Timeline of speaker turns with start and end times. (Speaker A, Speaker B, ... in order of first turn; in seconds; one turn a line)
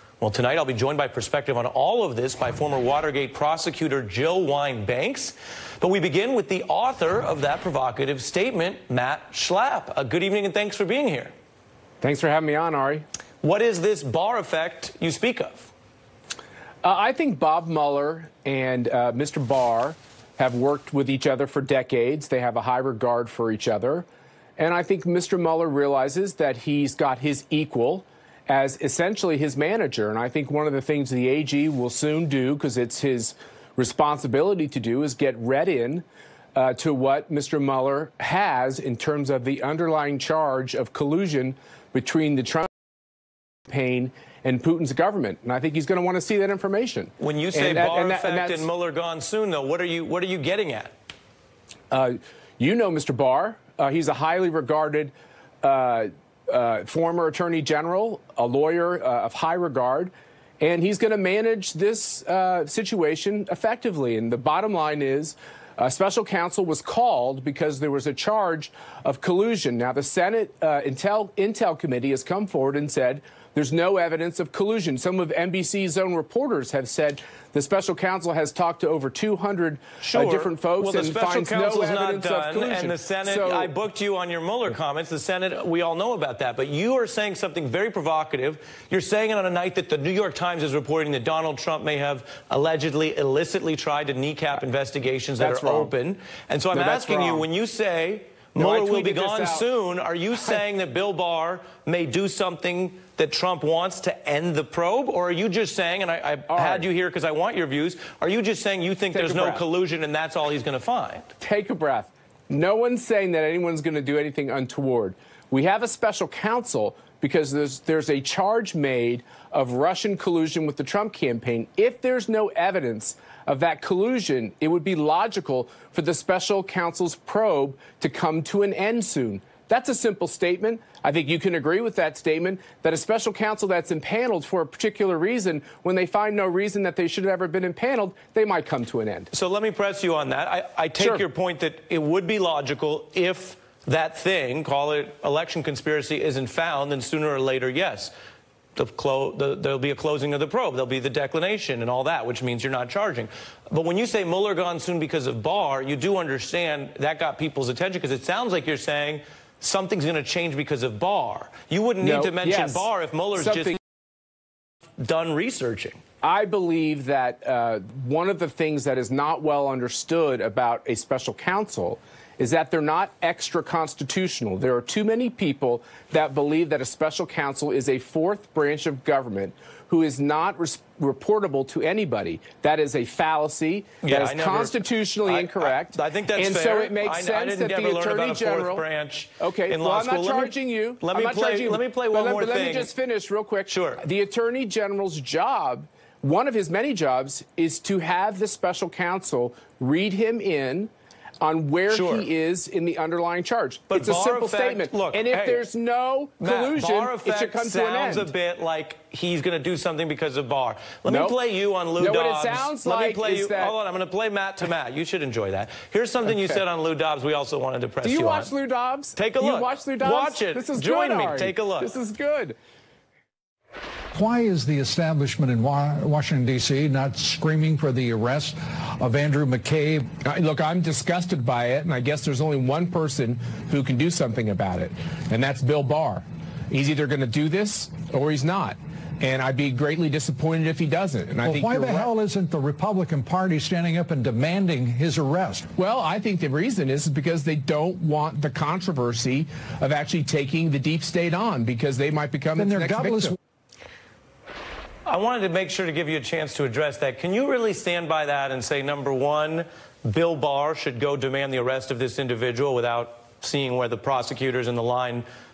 Speaker A: 0.2-11.3
Speaker B: 12.0-13.0
Speaker A: 13.4-15.7
Speaker B: 16.8-24.1
Speaker B: 24.6-36.0
Speaker B: 36.5-42.7
Speaker B: 43.7-48.7
Speaker A: 47.2-50.9
Speaker B: 51.9-83.7
Speaker A: 80.0-111.3
Speaker B: 95.4-95.9
Speaker B: 96.7-97.5
Speaker B: 98.6-99.7
Speaker B: 106.5-106.9
Speaker B: 109.1-109.6
Speaker B: 111.4-139.3
Speaker A: 139.3-148.1
Speaker B: 141.0-141.2
Speaker A: 148.8-163.8
Speaker B: 162.0-163.8
Speaker A: 165.0-166.0
Speaker B: 166.2-188.8
Speaker A: 184.0-192.9
Speaker B: 189.4-208.3
Speaker A: 193.7-194.0
Speaker A: 201.9-202.3
Speaker A: 203.9-205.6
Speaker A: 206.4-218.5
Speaker B: 211.1-211.4
Speaker B: 212.0-213.8
Speaker B: 216.3-216.6
Speaker B: 218.0-222.6
Speaker A: 219.2-221.9
Speaker C: 224.1-230.1
Speaker B: 230.2-242.1
Speaker C: 241.4-245.7
Speaker B: 245.8-253.4
Speaker C: 252.6-253.4
Speaker A: 255.1-265.2